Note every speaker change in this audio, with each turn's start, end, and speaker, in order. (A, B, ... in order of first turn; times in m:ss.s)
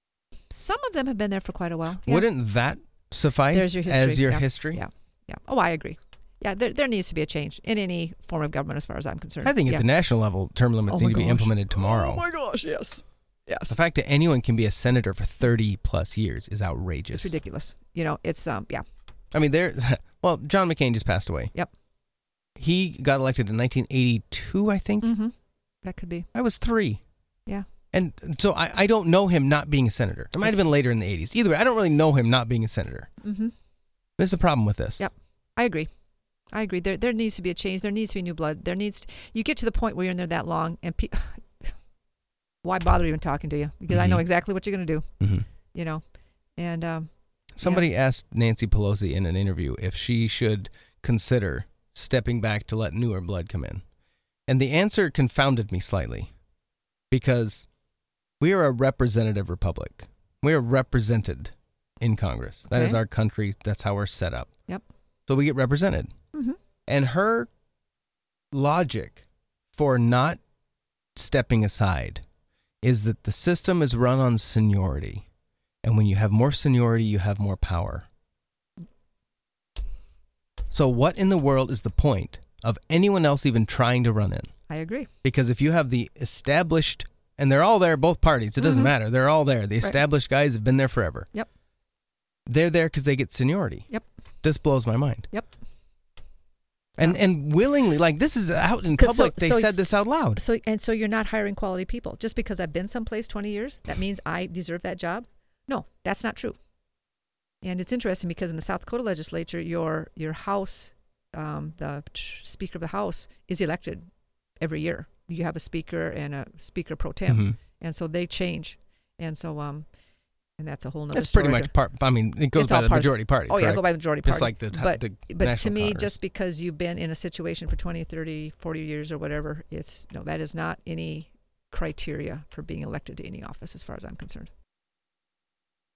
0:00.5-0:02.3 A
0:02.0-0:04.8 B
0:03.5-0:09.8 A
0:09.4-0:12.2 B
0:10.9-0:13.7 A
0:13.7-0:17.3 B
0:17.1-0:18.8 A
0:19.3-0:21.5 B
0:22.6-0:25.1 B
0:25.0-0:26.3 A
0:26.3-0:27.0 B
0:27.9-0:33.1 B
0:33.2-0:33.5 A
0:34.2-0:35.0 B
0:35.0-0:35.9 A
0:36.5-0:41.7 A
0:42.6-0:45.1 A
0:43.9-0:44.2 B
0:45.2-0:45.4 B
0:45.7-0:46.0 A
0:46.6-0:47.1 A
0:47.5-0:53.8 B
0:47.6-0:47.9 A
0:54.5-0:56.3 B
0:57.1-0:57.6 B
0:58.4-1:04.5 B
1:02.7-1:03.0 A
1:05.3-1:06.1 B
1:06.9-1:07.5 B
1:08.5-1:10.4 B
1:11.1-1:12.2 B
1:12.8-1:15.2 B
1:15.8-1:18.0 B
1:20.7-1:24.5 B
1:24.7-1:25.1 A
1:25.2-1:31.3 B
1:28.6-1:28.9 A
1:32.5-1:33.9 B
1:34.4-1:35.3 B
1:37.0-1:40.4 B
1:39.0-1:46.6 A
1:47.6-1:54.0 A
1:54.6-1:59.8 A
1:57.3-1:57.6 B
2:00.6-2:01.7 A
2:01.1-2:06.1 B
2:02.5-2:14.5 A